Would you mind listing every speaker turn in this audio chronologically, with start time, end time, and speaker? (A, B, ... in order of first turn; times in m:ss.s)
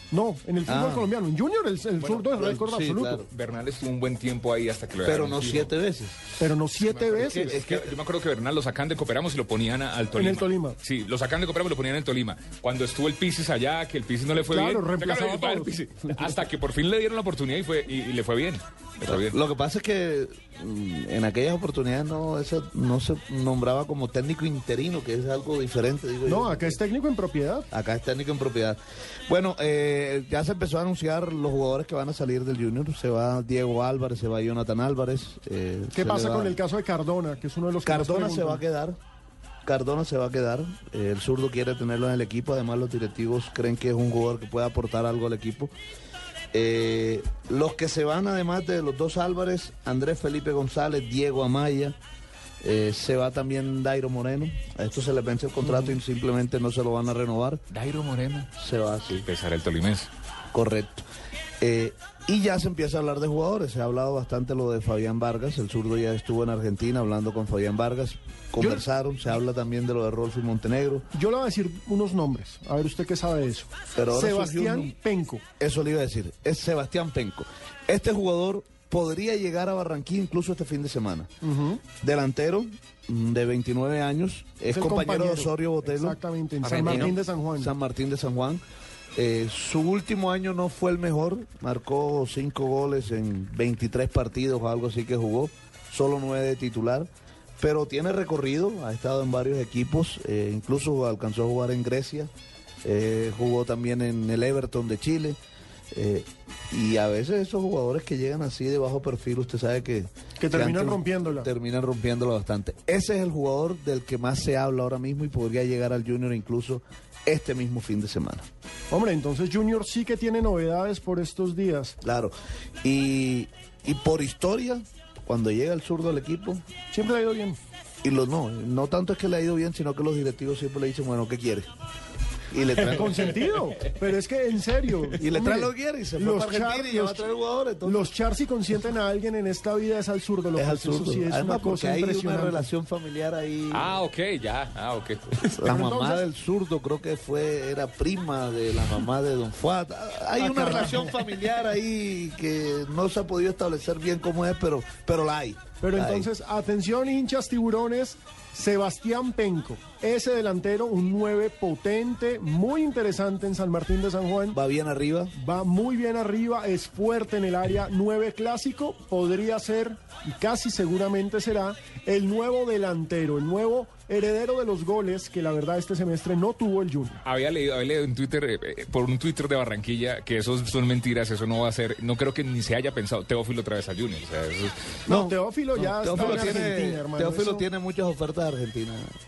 0:00.1-0:03.2 A
0:00.6-0:01.1 B
0:02.0-0:03.3 B
0:03.3-0:05.7 C
0:05.0-0:06.3 B
0:06.4-0:07.6 A
0:07.0-0:07.9 B
0:07.1-0:19.4 C
0:10.1-0:10.8 A
0:14.5-0:15.9 A
0:19.0-0:26.8 B
0:26.2-0:27.7 A
0:27.7-0:36.6 B
0:35.9-0:38.6 A
0:37.8-0:39.0 B
0:39.6-0:45.7 B
0:46.5-0:52.0 B
0:52.6-0:57.6 B
0:57.7-0:58.5 C
0:58.6-0:59.3 B
0:59.2-1:00.1 C
1:00.5-1:01.0 B
1:01.6-1:11.0 B
1:08.6-1:08.8 A
1:11.1-1:15.4 A
1:13.9-1:14.9 B
1:15.6-1:21.3 B
1:21.4-1:21.8 A
1:22.0-1:26.2 B
1:24.7-1:27.7 A
1:26.6-1:27.1 C
1:26.7-1:28.6 B
1:29.2-1:37.1 B
1:37.6-1:42.3 B
1:42.8-1:45.4 B
1:45.9-1:58.4 B
1:50.4-1:51.5 A
1:58.9-2:02.0 A
2:02.0-2:06.6 B
2:06.9-2:07.6 A
2:08.0-2:11.7 B
2:12.5-2:13.4 B
2:12.8-2:17.3 A
2:15.2-2:18.1 B
2:17.8-2:22.7 A
2:20.6-2:24.0 B
2:23.7-2:25.6 C
2:25.6-2:36.3 B
2:25.6-2:26.2 A
2:30.4-2:31.2 A
2:35.8-2:44.6 A
2:44.5-2:45.3 B
2:45.3-2:57.2 A
2:57.2-3:05.0 C
3:05.0-3:07.6 A
3:05.1-3:09.1 B